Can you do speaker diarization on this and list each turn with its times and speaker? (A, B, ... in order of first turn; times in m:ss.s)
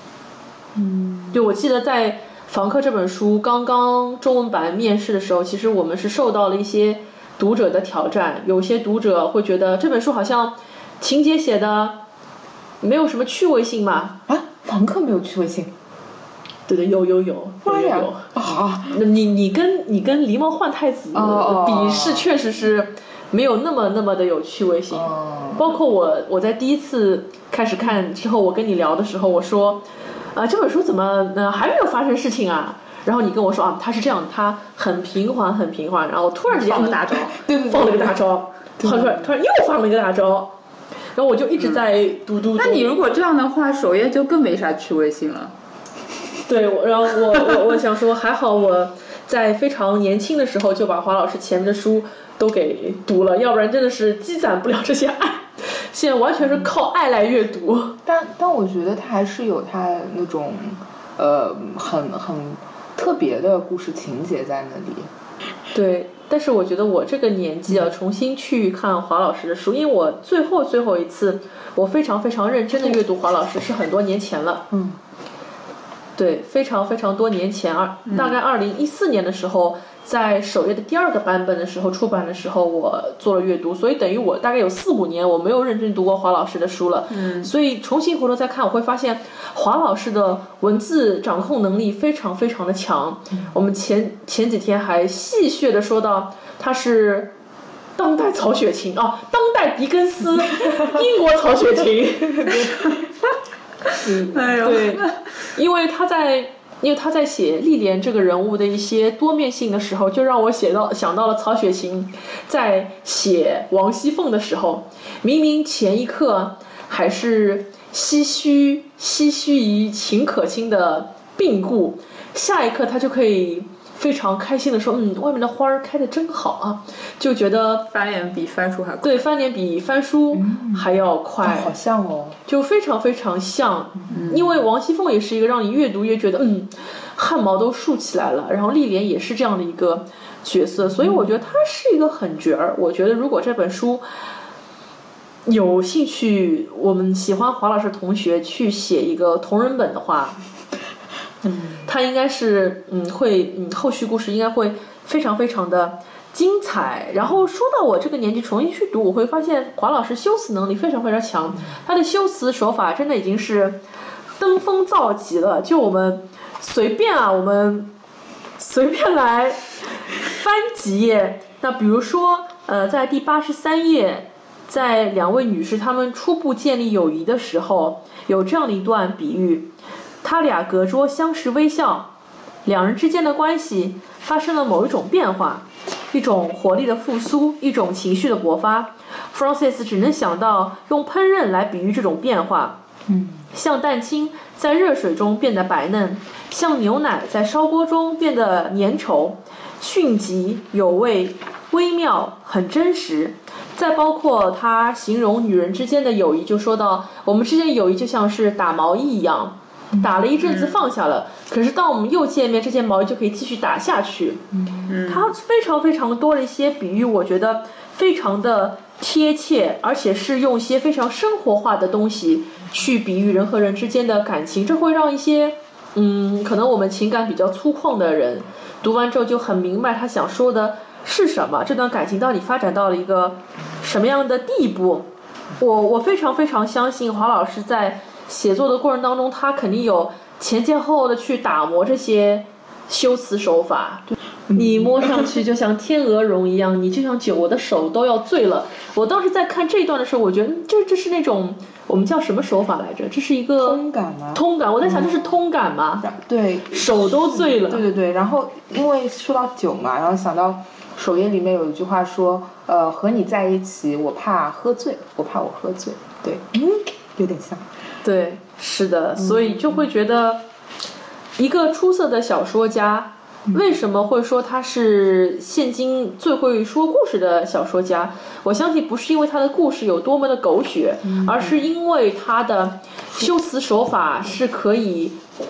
0:00.8-0:01.4 A
0:01.3-0:12.0 B
0:12.8-0:14.2 B
0:14.3-0:15.7 A
0:16.7-0:18.2 B
0:17.6-0:19.0 A
0:18.9-0:40.5 B
0:21.1-0:22.3 A
0:24.9-0:25.7 A
0:36.5-0:38.1 A
0:38.8-0:39.2 A
0:41.2-0:43.0 B
0:42.6-0:45.5 C
0:46.5-0:58.0 B
0:58.0-1:05.1 A
1:05.7-1:14.7 B
1:14.7-1:15.0 A
1:16.2-1:37.3 B
1:27.1-1:27.5 C
1:38.0-1:42.6 B
1:40.7-1:41.0 A
1:42.2-1:43.0 A
1:44.0-1:44.4 A
1:44.3-1:45.2 C
1:44.5-2:07.9 B
2:07.9-2:09.2 C
2:09.0-2:11.7 B
2:10.3-2:12.4 A
2:12.5-2:24.0 B
2:14.1-2:14.5 C
2:20.9-2:21.2 A
2:25.4-2:30.4 B
2:31.4-2:31.8 A
2:31.8-2:43.8 B
2:44.4-2:47.9 B
2:48.6-2:59.7 B
3:00.2-3:02.1 B
3:02.6-3:12.8 B
3:13.1-3:13.5 A
3:13.5-3:34.4 B
3:34.9-3:35.3 C
3:35.0-3:55.1 B
3:55.6-4:13.8 B
4:04.5-4:05.3 A
4:13.6-4:15.3 A
4:14.3-4:16.1 B
4:16.0-4:27.7 A
4:16.7-4:17.8 B
4:28.0-4:30.4 B
4:29.2-4:29.8 A
4:31.4-4:45.2 B
4:41.0-4:41.6 A